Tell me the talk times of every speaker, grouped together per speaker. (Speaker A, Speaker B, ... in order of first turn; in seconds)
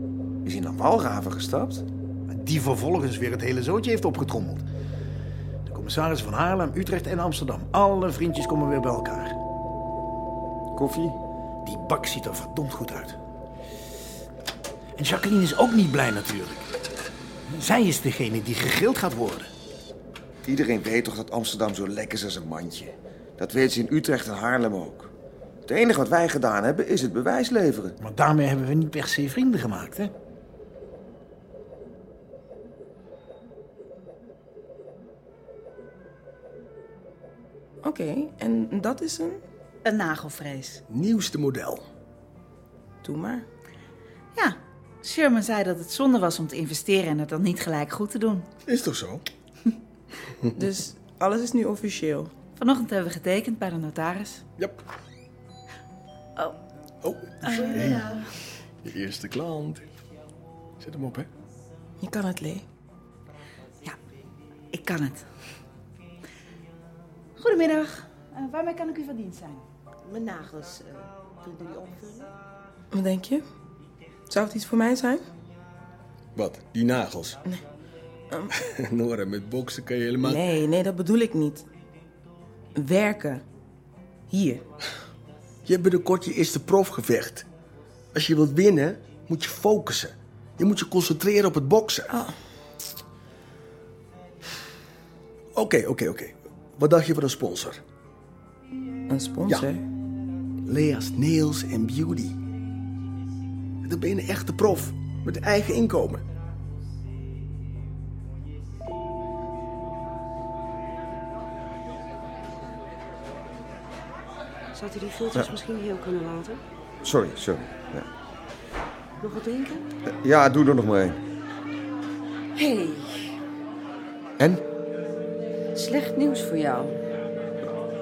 Speaker A: 0.4-1.8, 10.7-11.2, 20.4-25.1, 25.6-27.9, 115.3-115.6, 117.0-118.1, 120.1-121.2
Speaker B: 2.3-4.6, 5.7-9.3, 11.6-13.1, 15.0-16.7, 17.5-19.5, 28.0-30.1
Speaker C: 37.8-39.4, 43.0-43.5, 50.6-52.3, 62.0-62.6, 72.9-73.4, 74.3-75.2, 80.2-81.7, 82.7-83.4, 84.3-84.6, 99.1-99.8
Speaker D: 39.8-40.8, 44.3-48.5, 52.6-54.4, 57.4-58.2, 64.7-65.2, 67.4-69.6
Speaker E: 40.9-41.8, 48.6-49.2, 57.0-58.1, 58.8-59.8, 60.8-61.3, 76.3-77.4, 78.8-80.5, 85.6-87.5, 88.1-92.1, 95.5-97.8, 100.7-102.3, 103.8-106.2
Speaker F: 70.1-72.2
Speaker G: 114.7-116.6, 119.2-119.8, 122.5-123.2, 125.7-127.0